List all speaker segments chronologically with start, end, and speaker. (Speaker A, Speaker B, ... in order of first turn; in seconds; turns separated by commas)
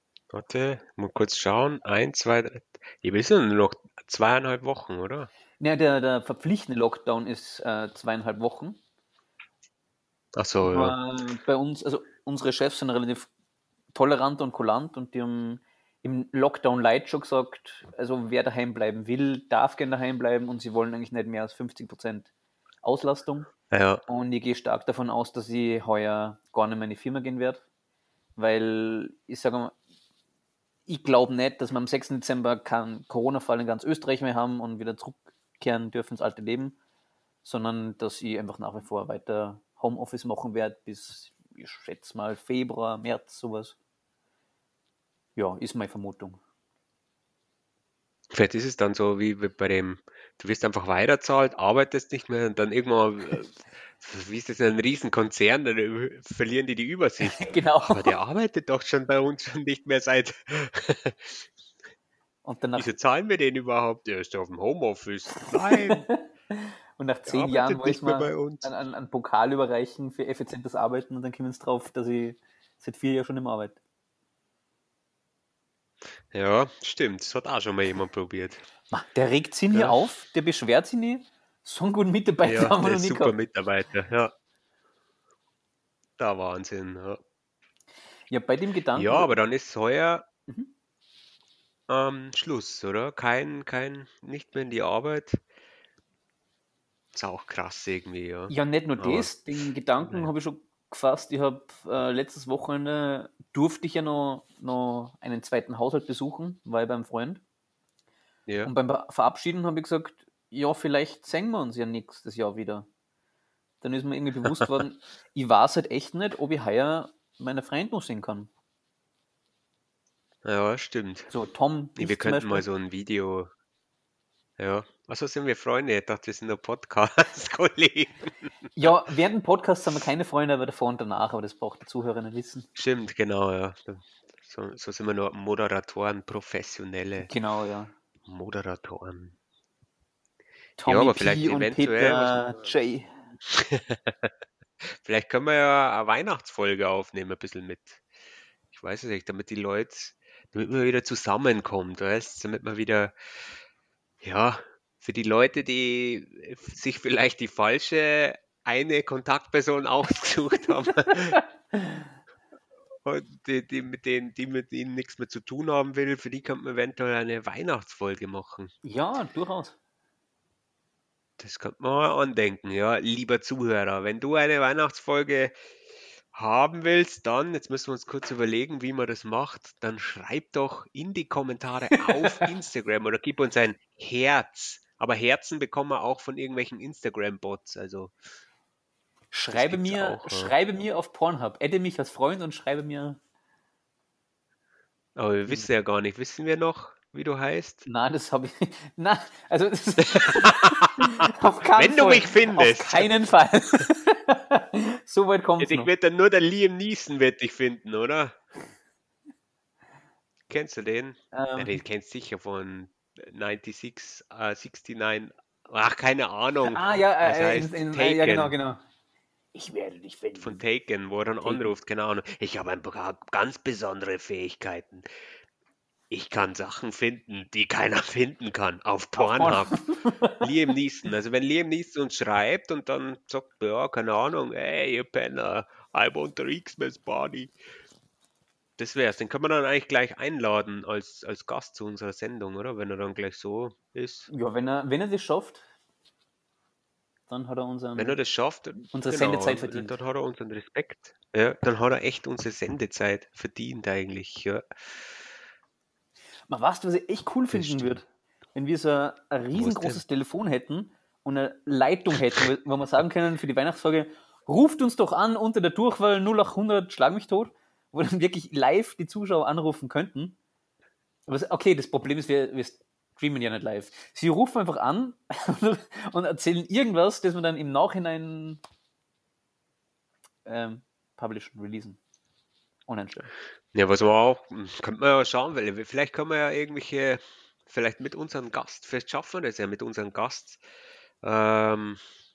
Speaker A: 0.3-5.3, Speaker B: 5.6-8.8, Speaker A: 10.4-10.9, Speaker B: 10.6-13.3, Speaker B: 13.9-22.3, Speaker B: 22.8-23.5, Speaker A: 23.7-24.0, Speaker B: 24.1-27.6, Speaker B: 28.4-29.8, Speaker B: 30.9-36.8, Speaker B: 37.4-43.8, Speaker B: 45.4-46.4, Speaker A: 48.3-61.5, Speaker B: 57.2-58.1, Speaker B: 62.4-62.9, Speaker A: 62.8-66.1, Speaker B: 65.5-73.8, Speaker A: 67.3-68.7, Speaker A: 76.3-78.6, Speaker B: 78.9-83.3, Speaker A: 79.7-80.0, Speaker A: 82.4-84.3, Speaker A: 86.2-87.2, Speaker B: 88.3-89.3, Speaker A: 88.9-90.3, Speaker A: 91.9-95.4, Speaker A: 97.1-99.3, Speaker B: 98.5-107.4, Speaker A: 100.0-100.3, Speaker A: 108.5-108.7, Speaker B: 108.6-112.9, Speaker B: 113.8-118.5, Speaker A: 120.5-121.3, Speaker B: 121.3-122.6, Speaker A: 122.0-123.5, Speaker A: 124.6-128.3, Speaker B: 128.8-132.7, Speaker A: 132.8-137.3, Speaker B: 137.2-137.9, Speaker A: 138.3-139.4, Speaker B: 140.8-143.1, Speaker A: 140.8-142.6, Speaker A: 143.5-144.3, Speaker A: 144.8-148.0, Speaker A: 148.7-153.1, Speaker A: 154.2-161.4, Speaker B: 161.7-162.1, Speaker A: 163.1-168.7, Speaker B: 168.8-169.8, Speaker A: 171.4-175.6, Speaker A: 176.3-188.1, Speaker B: 189.3-193.2, Speaker A: 189.5-190.5, Speaker A: 195.2-197.9, Speaker B: 197.9-205.9, Speaker A: 200.0-201.1, Speaker A: 201.8-203.1, Speaker A: 205.6-208.4, Speaker A: 210.5-218.6, Speaker B: 211.3-211.8, Speaker B: 216.7-218.8, Speaker B: 219.5-220.6, Speaker A: 220.4-225.1, Speaker B: 221.4-221.7, Speaker A: 226.1-229.8, Speaker B: 229.2-230.4, Speaker A: 230.4-237.5, Speaker A: 238.8-244.3, Speaker B: 244.3-245.6, Speaker B: 247.3-248.2, Speaker A: 248.0-254.6, Speaker B: 248.9-250.0, Speaker B: 256.5-270.4, Speaker A: 257.5-258.0, Speaker A: 259.5-260.0, Speaker B: 271.3-278.6, Speaker B: 280.5-282.0, Speaker B: 282.9-283.3, Speaker A: 283.7-290.6, Speaker A: 291.2-292.0